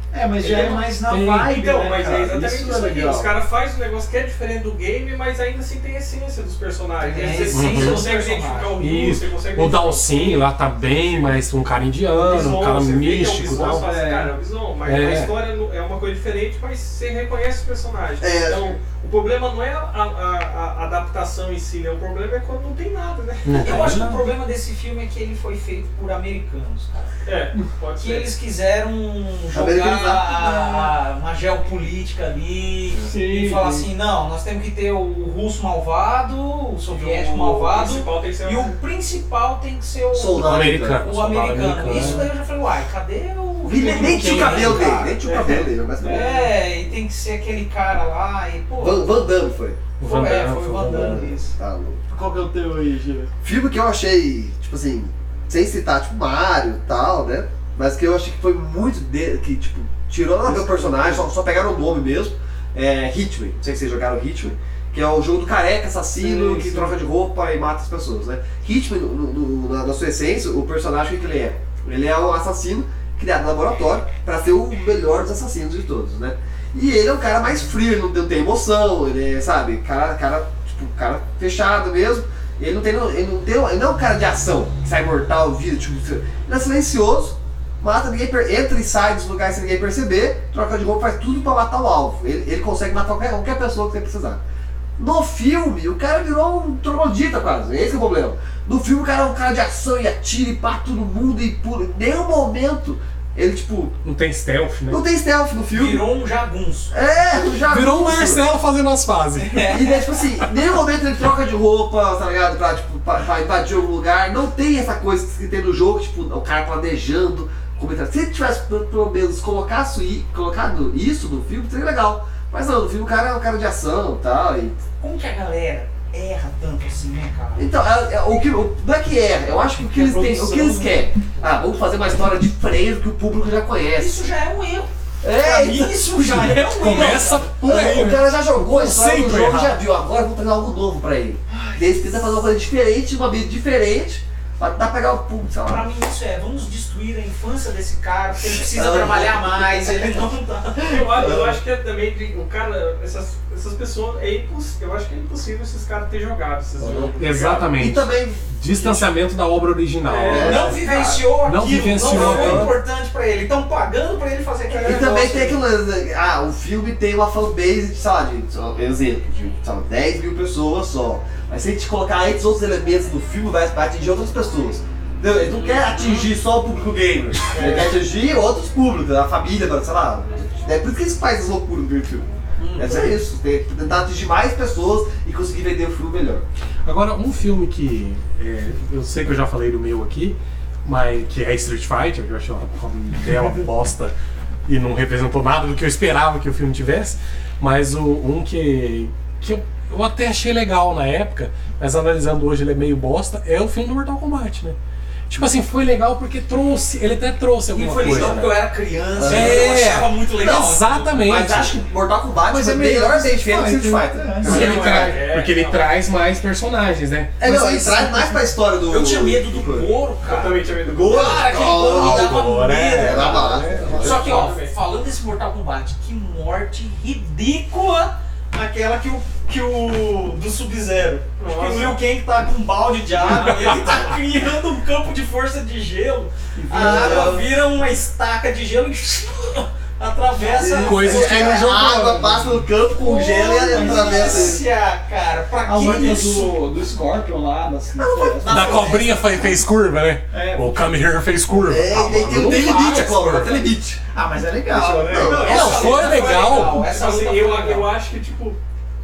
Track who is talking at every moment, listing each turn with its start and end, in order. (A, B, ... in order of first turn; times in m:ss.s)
0:00.1-0:02.5 A
0:00.4-0:00.9 B
0:01.0-0:01.5 C
0:01.4-0:11.4 B
0:02.3-0:03.3 D
0:07.0-0:08.8 E
0:07.4-0:08.1 C
0:08.8-0:13.9 C
0:12.2-0:23.9 B
0:13.4-0:14.3 A
0:14.8-0:15.4 C
0:18.2-0:18.8 D
0:23.4-0:24.2 C
0:23.6-0:27.1 E
0:27.2-0:28.3 B
0:28.0-0:45.5 E
0:29.5-0:30.5 D
0:30.4-0:30.9 A
0:33.0-0:33.9 A
0:36.9-0:38.7 B
0:40.1-0:41.1 D
0:40.4-0:42.3 C
0:43.6-0:46.4 D
0:43.8-0:45.0 C
0:45.2-0:45.7 B
0:46.0-0:46.6 A
0:46.0-0:49.2 E
0:48.8-0:49.8 D
0:50.0-0:51.4 C
0:50.0-0:51.5 E
0:50.9-0:52.0 D
0:52.1-0:53.3 A
0:53.4-1:34.4 D
1:00.4-1:01.2 A
1:06.2-1:07.0 A
1:35.0-1:44.0 D
1:44.0-1:45.0 C
1:44.9-1:46.0 D
1:45.7-1:47.0 E
1:46.9-1:48.4 D
1:47.6-1:49.8 C
1:49.4-1:49.9 E
1:49.7-2:04.8 D
2:05.0-2:07.7 E
2:07.6-2:14.2 D
2:09.9-2:10.9 A
2:14.0-2:17.5 E
2:15.2-2:16.7 D
2:16.7-2:19.8 C
2:17.6-2:25.9 D
2:21.5-2:21.9 A
2:25.6-2:31.0 E
2:28.6-2:30.0 D
2:30.8-2:37.8 B
2:30.9-2:31.6 D
2:36.8-2:37.2 D
2:37.2-2:42.8 C
2:37.7-2:39.2 D
2:40.0-2:40.9 B
2:40.3-2:41.1 D
2:40.3-2:45.6 E
2:42.0-2:42.8 D
2:44.7-3:06.4 D
2:55.4-2:56.3 E
2:57.5-2:58.0 B
3:02.6-3:03.2 E
3:06.8-3:14.1 C
3:14.7-3:24.8 C
3:25.3-3:31.8 C
3:27.7-3:31.3 E
3:28.1-3:28.4 D
3:29.2-3:29.8 D
3:31.2-3:35.2 D
3:32.5-3:34.6 A
3:34.4-3:37.6 C
3:34.4-3:35.9 B
3:37.4-3:39.9 D
3:37.4-3:38.4 A
3:38.9-4:01.7 E
3:40.2-3:41.6 B
3:40.9-3:44.4 D
3:41.6-3:44.3 C
3:43.9-3:44.8 B
3:51.4-3:52.0 B
3:53.2-3:53.9 A
3:53.4-3:53.7 B
3:56.6-3:57.4 A
3:56.7-3:57.5 D
4:00.6-4:04.6 D
4:00.7-4:02.2 C
4:03.0-4:06.6 E
4:03.5-4:04.6 A
4:05.6-4:08.8 A
4:08.0-4:08.8 D
4:08.4-4:09.7 E
4:08.5-4:13.6 C
4:10.3-4:11.0 A
4:11.7-4:14.0 D
4:14.1-4:15.6 A
4:14.7-4:16.1 D
4:15.1-4:17.9 E
4:15.2-4:18.6 B
4:15.3-4:16.8 C